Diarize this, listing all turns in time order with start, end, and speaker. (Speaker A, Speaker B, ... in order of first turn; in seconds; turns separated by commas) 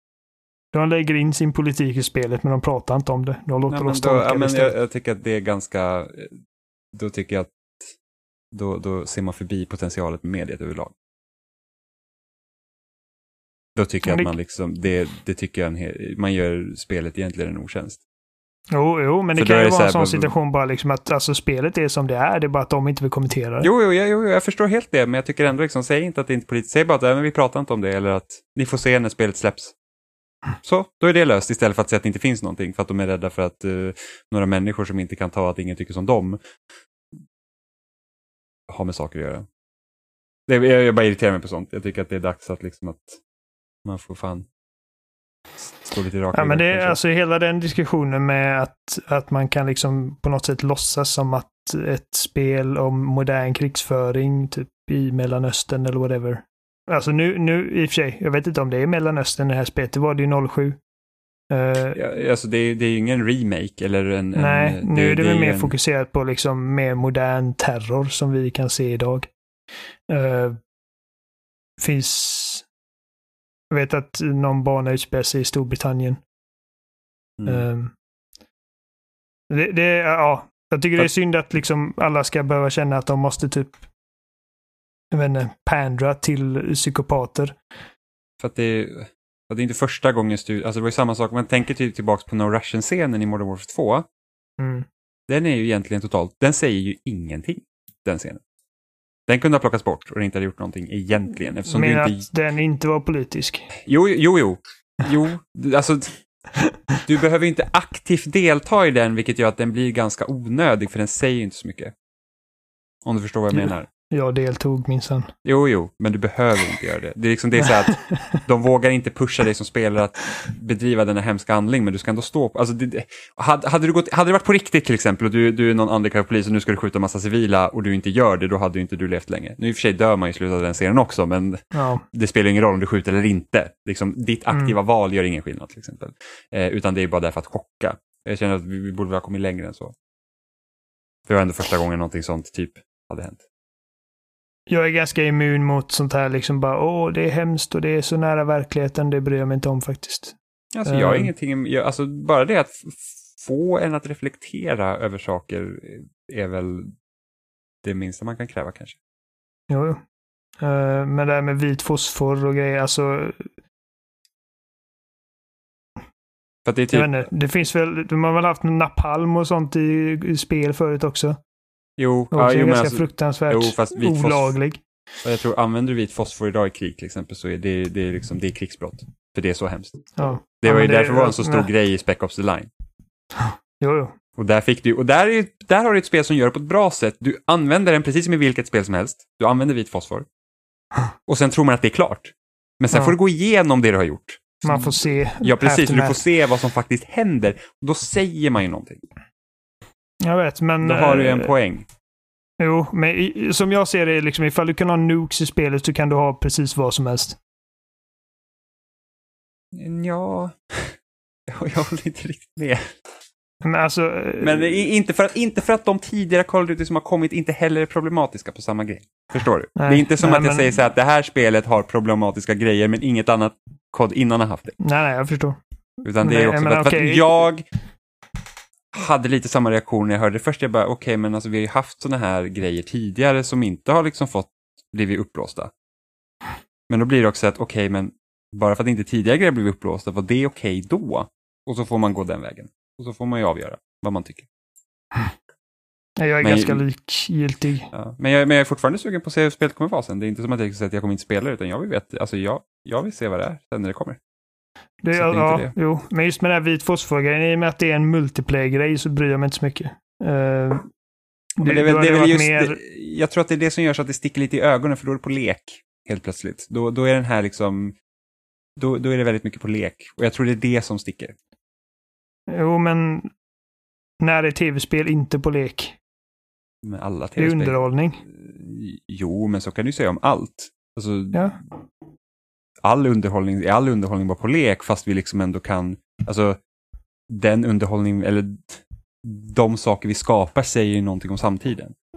Speaker A: 0.7-4.8, Speaker B: 3.7-6.4, Speaker B: 6.9-7.9, Speaker B: 8.5-10.9, Speaker B: 13.8-18.0, Speaker A: 18.7-23.7, Speaker B: 19.4-20.3, Speaker B: 23.6-29.8, Speaker B: 30.6-36.4, Speaker B: 38.7-39.5, Speaker B: 40.5-43.2, Speaker B: 43.9-44.5, Speaker B: 45.6-47.0, Speaker A: 46.3-60.8, Speaker A: 61.5-62.0, Speaker B: 61.9-65.8, Speaker A: 64.4-69.3, Speaker A: 70.1-70.6, Speaker A: 71.8-72.7, Speaker A: 73.7-76.2, Speaker B: 77.4-77.7, Speaker A: 77.5-77.9, Speaker A: 79.5-83.8, Speaker A: 85.1-87.6, Speaker B: 88.4-94.1, Speaker A: 94.6-94.9, Speaker B: 95.3-98.4, Speaker B: 99.3-102.3, Speaker A: 101.7-103.7, Speaker B: 103.8-106.2, Speaker B: 107.1-111.9, Speaker B: 113.0-113.9, Speaker A: 113.5-115.3, Speaker B: 115.5-139.9, Speaker A: 131.7-132.0, Speaker B: 141.3-143.4, Speaker A: 144.7-151.3, Speaker B: 150.7-156.9, Speaker B: 157.8-159.0, Speaker A: 159.7-160.0, Speaker A: 160.6-163.5, Speaker B: 166.7-167.2, Speaker A: 166.9-171.4, Speaker B: 172.0-174.6, Speaker A: 172.3-174.8, Speaker B: 175.2-182.7, Speaker A: 180.2-181.7, Speaker A: 183.4-184.1, Speaker B: 184.4-190.3, Speaker B: 191.3-199.0, Speaker A: 194.6-196.2, Speaker A: 200.2-201.5, Speaker B: 200.8-201.9, Speaker A: 202.6-207.4, Speaker B: 209.7-212.9, Speaker A: 213.6-214.8, Speaker B: 214.4-224.8, Speaker A: 219.8-220.7, Speaker A: 224.8-225.6, Speaker B: 226.0-227.7, Speaker A: 226.2-227.2, Speaker B: 228.9-235.7, Speaker B: 236.9-244.5, Speaker A: 246.2-247.9, Speaker B: 246.4-246.8, Speaker B: 247.9-254.2, Speaker A: 255.0-260.9, Speaker B: 255.1-255.7, Speaker A: 261.6-262.8, Speaker B: 261.6-267.9, Speaker B: 268.8-271.4, Speaker A: 272.5-273.3, Speaker A: 274.2-276.0, Speaker B: 276.8-281.6, Speaker A: 277.4-278.2, Speaker A: 281.3-281.6, Speaker B: 282.8-286.6, Speaker B: 287.3-291.9